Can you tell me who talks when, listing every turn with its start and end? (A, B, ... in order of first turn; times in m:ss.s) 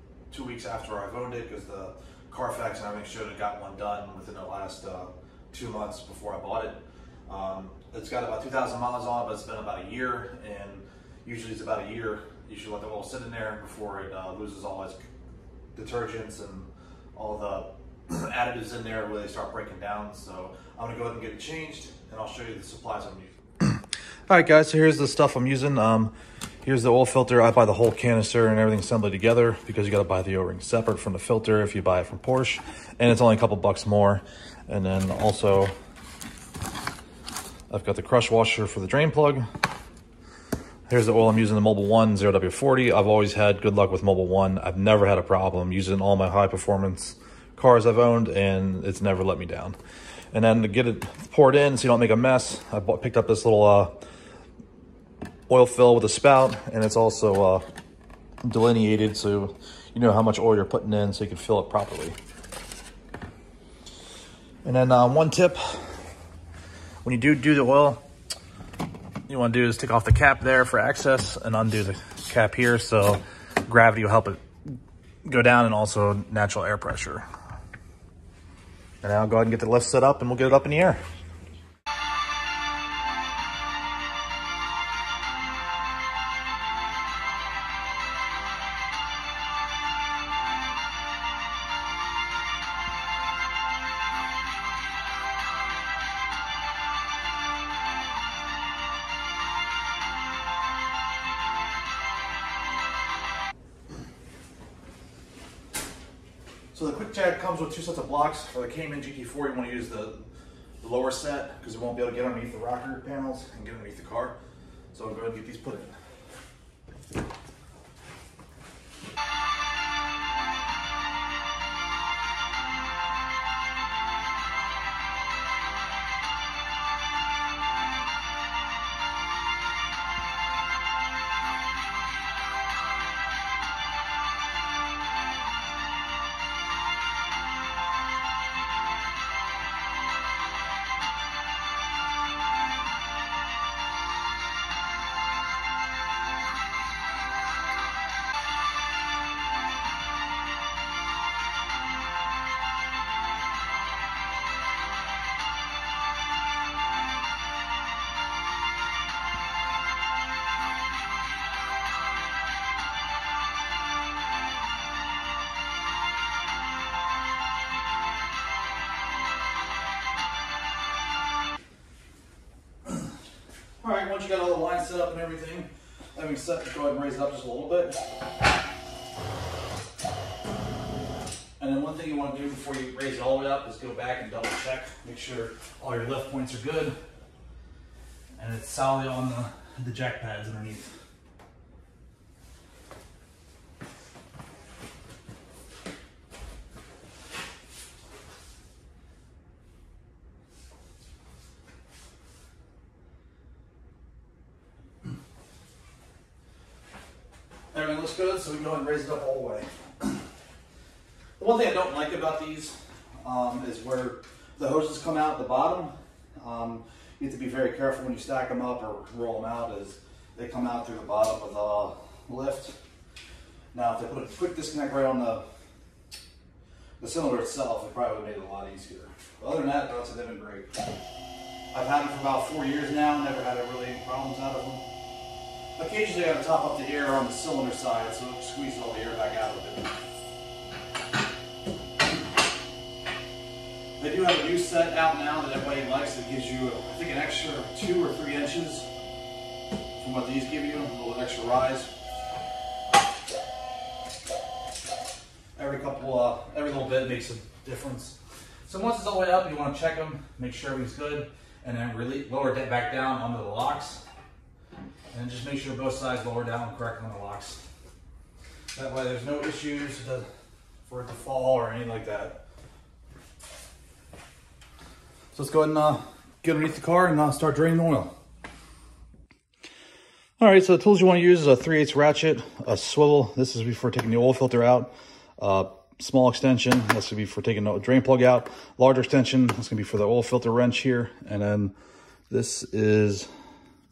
0:00.3-0:15.0 A
0:15.8-0:26.1 A
0:26.6-0:35.7 A
0:37.7-0:39.4 A
0:40.9-0:49.8 A
0:50.3-0:54.0 A
0:55.5-0:57.6 A
0:58.4-1:02.2 A
1:04.6-1:05.9 A
1:07.0-1:08.0 A
1:09.3-1:14.4 A
1:15.2-1:17.2 A
1:19.0-1:21.0 A
1:46.7-1:50.2 A
1:50.8-1:54.4 A
1:54.9-1:56.0 A
2:53.8-2:58.0 A
3:01.6-3:07.0 A
3:08.4-3:11.0 A
3:27.7-3:30.2 A
3:31.4-3:42.8 A
3:43.7-3:45.4 A
3:47.0-3:50.7 A
3:51.7-3:54.8 A
3:55.8-3:59.9 A
4:04.0-4:08.9 A
4:10.0-4:11.9 A
4:15.6-4:24.0 A
4:25.1-4:27.6 A
4:28.8-4:30.3 A
4:30.9-4:32.4 A
4:35.3-4:38.1 A
4:40.4-4:51.7 A
4:52.3-4:53.3 A